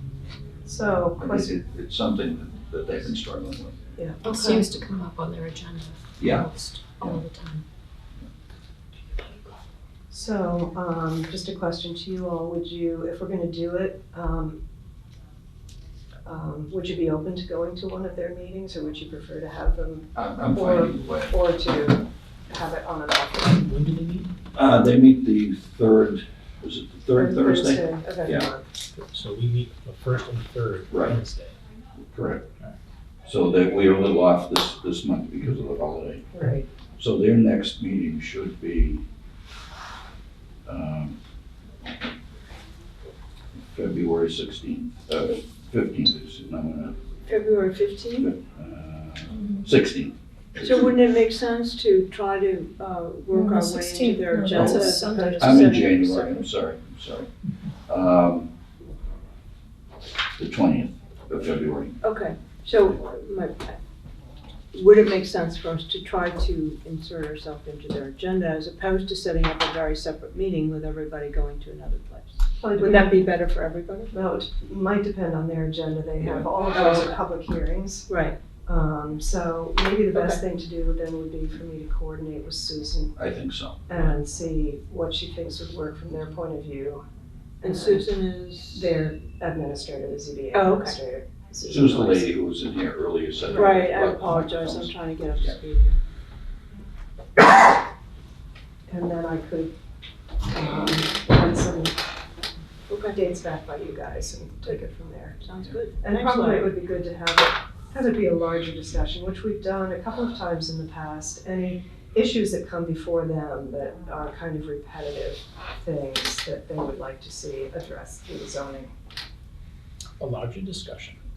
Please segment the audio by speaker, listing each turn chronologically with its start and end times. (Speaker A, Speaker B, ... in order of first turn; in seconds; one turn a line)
Speaker A: 0.6-1.5
Speaker B: 1.1-3.8
Speaker A: 4.0-4.7
Speaker C: 4.2-7.6
Speaker D: 4.3-4.6
Speaker B: 6.2-7.2
Speaker C: 9.2-9.4
Speaker A: 10.1-14.6
Speaker A: 16.2-23.6
Speaker B: 20.1-21.3
Speaker E: 23.5-24.3
Speaker B: 24.5-28.5
Speaker A: 27.1-28.7
Speaker E: 28.9-31.6
Speaker B: 30.9-31.2
Speaker B: 32.1-32.4
Speaker B: 33.2-36.3
Speaker A: 36.3-36.7
Speaker B: 37.0-39.0
Speaker B: 40.6-41.1
Speaker B: 43.7-46.9
Speaker D: 47.2-48.3
Speaker B: 48.2-50.7
Speaker D: 50.5-56.4
Speaker C: 53.3-55.8
Speaker B: 54.5-57.3
Speaker B: 57.9-58.5
Speaker B: 60.4-62.0
Speaker D: 62.0-63.8
Speaker D: 64.7-74.1
Speaker A: 72.6-73.2
Speaker A: 74.1-78.1
Speaker B: 76.2-76.5
Speaker D: 76.7-77.2
Speaker D: 78.1-78.3
Speaker A: 78.7-83.1
Speaker D: 80.1-80.4
Speaker B: 83.2-84.2
Speaker A: 83.9-87.0
Speaker A: 87.6-88.0
Speaker D: 87.6-88.9
Speaker A: 88.7-92.3
Speaker D: 90.5-91.0
Speaker B: 91.6-95.5
Speaker A: 93.5-93.7
Speaker D: 93.5-96.0
Speaker A: 98.9-99.7
Speaker A: 100.5-102.0
Speaker D: 102.9-103.1
Speaker A: 103.1-105.4
Speaker D: 105.4-106.7
Speaker A: 106.0-118.9
Speaker E: 120.2-121.2